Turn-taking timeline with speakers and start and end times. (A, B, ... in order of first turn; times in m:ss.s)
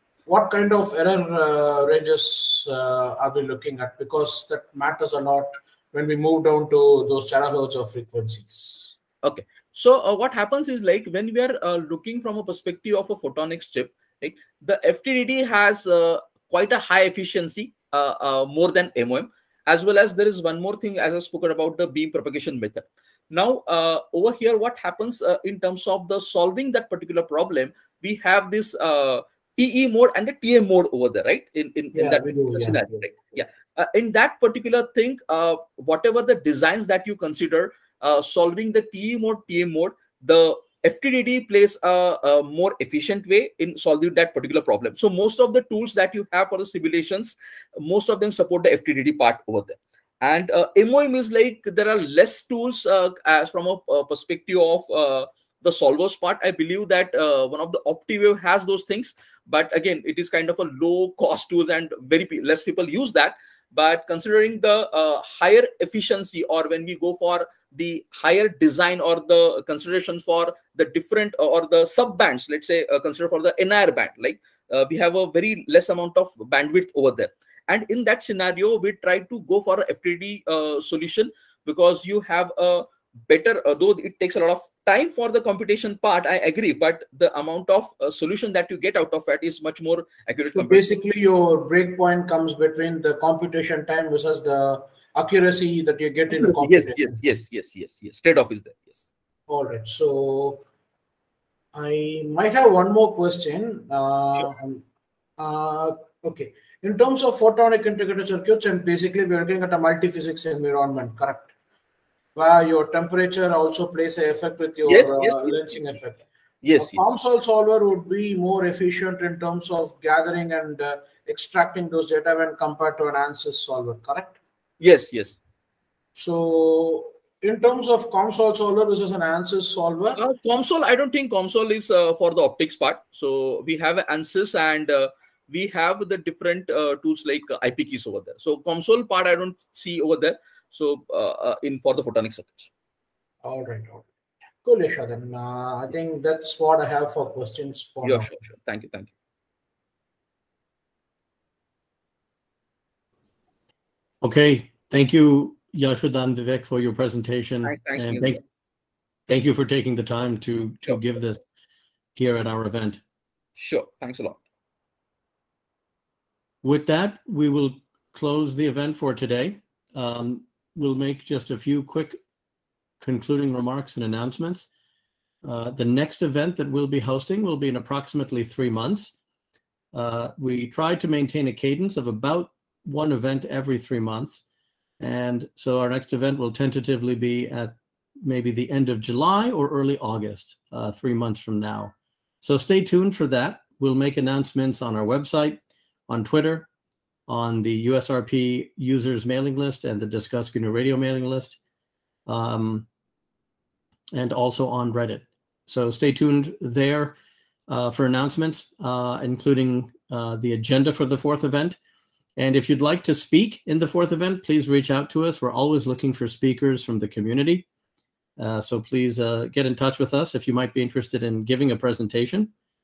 0:00.3-0:08.9 A
0:09.2-1:31.0 B
0:31.9-0:33.2 A
1:30.5-1:37.2 A
1:36.3-1:39.0 B
1:39.5-1:40.6 A
1:41.7-1:44.8 A
1:45.4-1:51.5 A
1:52.3-1:56.3 A
1:54.9-1:55.7 B
1:56.6-1:57.1 B
1:56.8-2:04.4 A
2:04.8-2:05.4 B
2:06.2-2:10.2 A
2:10.2-2:22.7 B
2:23.4-2:24.1 A
2:24.6-2:28.3 A
2:28.0-2:29.1 B
2:34.2-2:38.4 C
2:37.6-2:38.4 B
2:39.3-2:41.4 C
2:42.1-2:43.0 C
2:43.6-2:44.4 B
2:46.6-2:52.2 C
2:53.0-2:54.7 C
2:55.4-2:59.2 C
2:59.9-3:04.4 C
3:05.0-3:16.7 C
3:17.3-3:21.6 C
3:22.3-3:22.9 C
3:24.1-3:27.2 C
3:27.7-3:31.8 C
3:32.4-3:37.7 C
3:38.4-3:42.5 C